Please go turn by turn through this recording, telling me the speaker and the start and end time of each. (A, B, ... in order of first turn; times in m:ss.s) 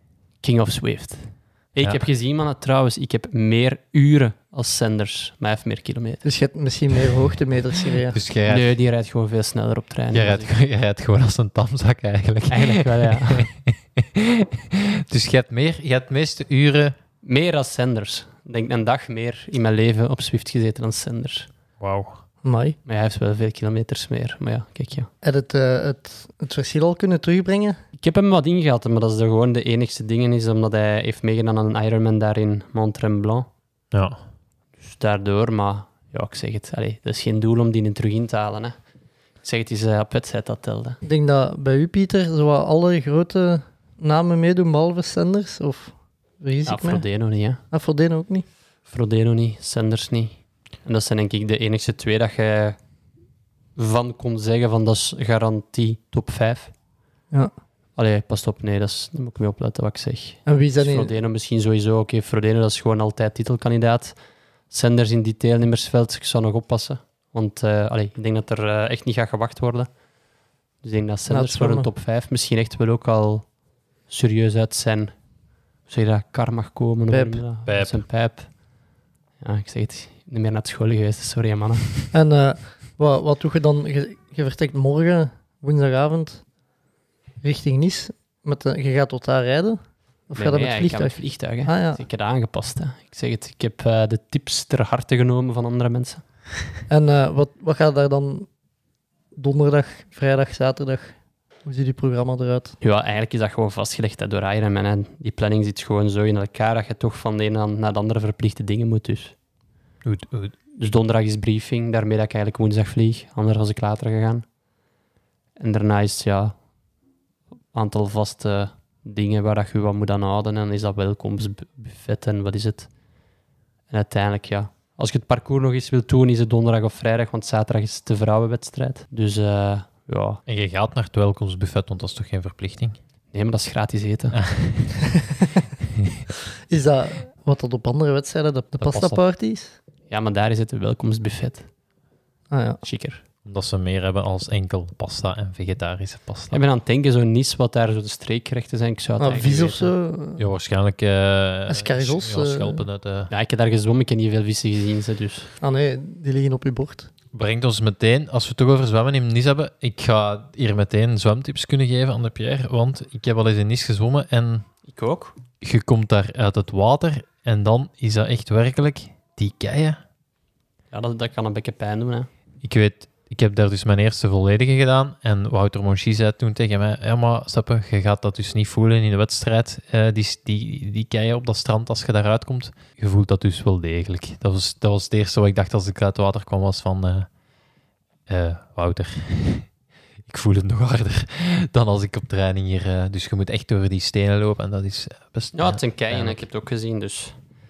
0:00.4-0:06.2 A
0:06.2-0:08.2 B
0:08.1-0:08.8 C
0:08.5-0:10.5 A
0:10.1-0:17.0 C
0:12.5-0:13.5 A
0:17.2-0:21.5 A
0:21.8-0:22.2 C
0:22.4-0:22.8 B
0:22.9-0:25.1 A
0:25.2-0:27.8 B
0:28.0-0:33.5 A
0:33.9-0:34.2 C
0:34.8-0:38.8 A
0:39.4-0:41.0 A
0:41.0-0:47.0 B
0:46.7-0:47.6 A
0:47.7-0:48.4 B
0:48.9-0:52.8 A
0:53.8-0:56.7 A
0:58.0-1:04.2 A
1:00.5-1:01.1 B
1:04.7-1:09.9 A
1:10.8-1:13.5 A
1:11.3-1:11.9 B
1:14.1-1:15.1 A
1:15.9-1:18.5 A
1:17.1-1:17.4 B
1:17.7-1:18.0 C
1:19.4-1:22.1 A
1:22.1-1:26.4 B
1:27.4-1:32.0 B
1:30.4-1:36.2 A
1:36.9-1:38.5 B
1:39.4-1:42.8 B
1:42.8-1:49.3 A
1:50.0-1:50.5 C
1:50.8-1:54.4 A
1:55.6-1:56.5 A
1:57.7-2:02.9 A
2:03.9-2:10.4 A
2:10.5-2:13.0 C
2:13.3-2:14.4 A
2:14.3-2:15.0 C
2:15.3-2:15.6 B
2:16.0-2:16.2 C
2:16.7-2:19.8 B
2:18.8-2:19.2 C
2:20.1-2:21.7 A
2:22.5-2:22.8 B
2:22.8-2:23.2 A
2:23.4-2:26.6 C
2:26.5-2:29.9 A
2:29.2-2:30.4 B
2:30.4-2:33.3 C
2:31.7-2:32.8 B
2:33.3-2:35.5 A
2:35.6-2:37.1 B
2:37.3-2:44.7 C
2:44.8-2:45.4 A
2:45.6-2:50.0 C
2:50.9-2:52.3 A
2:52.6-3:07.3 C
3:08.3-3:09.7 C
3:10.3-3:16.4 C
3:15.5-3:17.4 A